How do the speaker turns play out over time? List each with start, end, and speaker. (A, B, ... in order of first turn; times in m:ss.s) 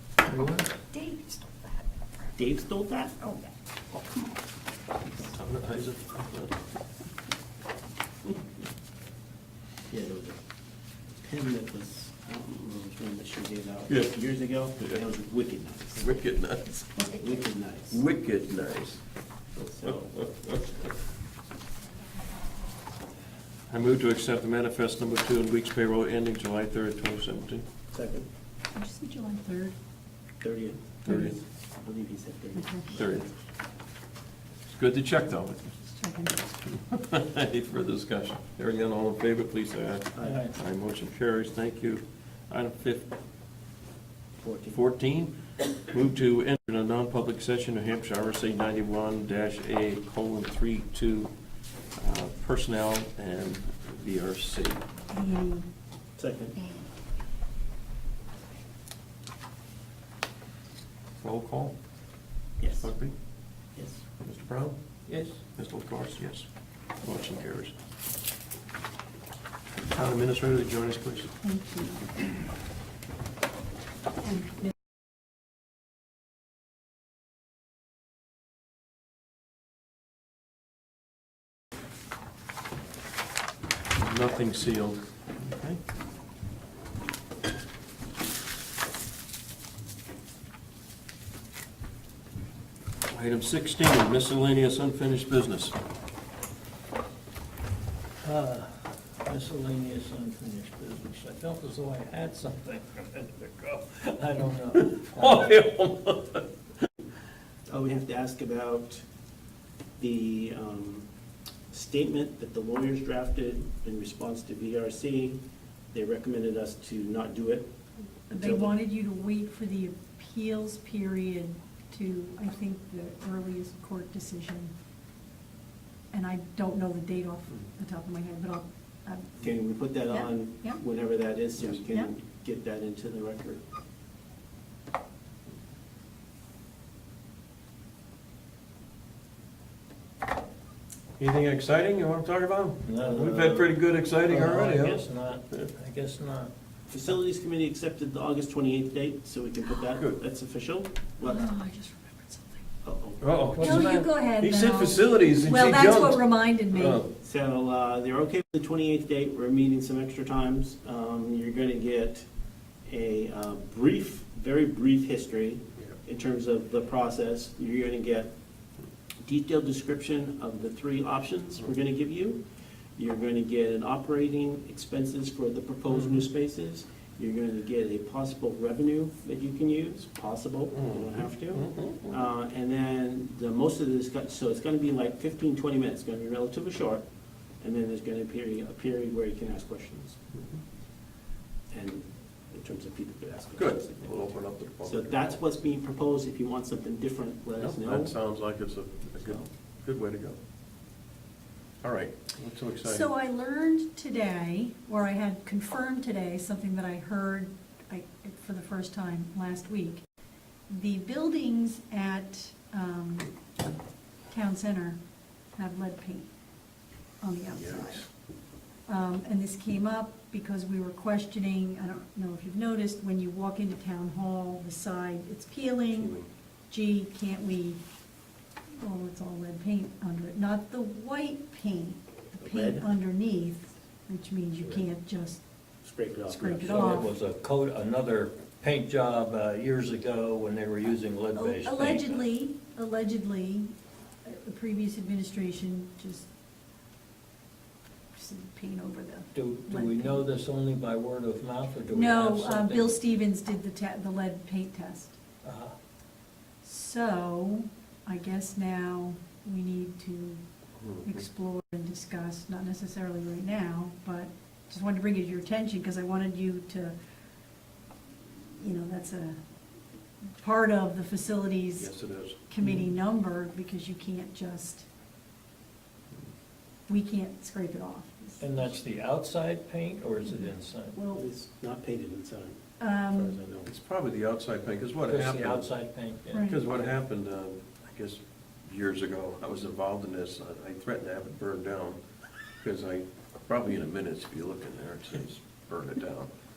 0:00.2-0:00.8 A
0:02.4-0:03.4 B
0:05.4-0:06.6 C
0:09.9-0:10.4 B
0:11.2-0:16.1 B
0:13.9-0:14.2 C
0:16.0-0:17.1 C
0:17.1-0:18.0 B
0:17.9-0:19.0 C
0:19.6-0:20.1 B
0:19.8-0:20.6 C
0:23.7-0:27.7 C
0:27.9-0:28.3 B
0:28.7-0:29.8 D
0:30.4-0:33.1 B
0:31.0-0:31.4 C
0:31.1-0:31.4 D
0:32.6-0:32.9 D
0:32.9-0:33.3 C
0:34.7-0:35.7 C
0:35.8-0:36.5 D
0:36.7-0:43.1 C
0:40.2-0:40.5 B
0:40.2-0:40.5 A
0:44.4-0:44.8 B
0:44.7-0:51.3 C
0:52.0-0:54.8 C
0:55.1-0:55.7 D
0:56.2-0:56.6 B
1:01.2-1:01.8 C
1:02.6-1:02.9 B
1:02.8-1:03.1 C
1:03.8-1:04.0 B
1:04.2-1:06.5 C
1:05.1-1:05.3 B
1:07.0-1:07.8 C
1:09.9-1:11.3 C
1:11.4-1:12.3 D
1:24.0-1:25.8 C
1:33.1-1:35.8 C
1:38.2-1:45.5 A
1:45.1-1:46.5 C
1:47.7-1:49.0 B
1:50.0-1:51.1 B
1:51.7-1:57.7 B
1:58.3-1:58.8 B
1:58.3-2:04.7 D
2:06.1-2:09.4 D
2:09.4-2:13.6 B
2:10.1-2:10.8 D
2:21.2-2:25.7 C
2:22.8-2:23.7 A
2:24.3-2:26.5 A
2:26.9-2:31.4 B
2:31.2-2:32.7 D
2:32.8-2:33.4 B
2:33.2-2:37.1 C
2:33.5-2:34.1 A
2:33.6-2:37.0 D
2:37.2-2:42.3 B
2:42.9-2:48.3 B
2:49.2-2:52.4 B
2:53.0-3:07.0 B
2:55.9-2:56.2 C
3:00.7-3:02.2 C
3:07.6-3:10.2 B
3:11.7-3:14.2 B
3:13.6-3:15.4 C
3:14.8-3:18.2 B
3:17.6-3:20.4 C
3:21.8-3:23.1 C
3:22.8-3:30.0 D
3:30.7-3:33.3 D
3:34.3-3:35.0 D
3:35.6-3:36.3 D
3:37.2-3:38.1 D
3:37.6-3:38.0 C
3:38.9-3:46.2 D
3:45.9-3:46.3 C
3:46.7-3:47.8 D
3:48.8-3:55.4 D
3:52.4-3:52.9 B
3:55.8-3:57.0 B
3:56.3-3:57.1 D
3:56.6-4:02.2 A
4:01.3-4:06.3 D
4:08.1-4:10.3 D
4:09.4-4:13.0 A
4:11.9-4:15.2 D
4:15.4-4:15.7 A
4:16.6-4:20.4 D
4:20.8-4:21.2 C
4:21.0-4:27.0 D
4:28.2-4:29.4 D
4:30.4-4:31.9 D
4:31.8-4:32.4 C
4:32.5-4:34.9 D
4:36.9-4:38.7 D
4:38.4-4:41.0 A
4:40.3-4:41.2 D
4:41.1-4:43.7 B
4:42.8-4:43.4 D
4:43.7-4:45.8 C
4:45.1-4:46.3 A
4:46.3-4:52.0 C
4:46.3-4:46.6 D
4:52.6-4:56.3 C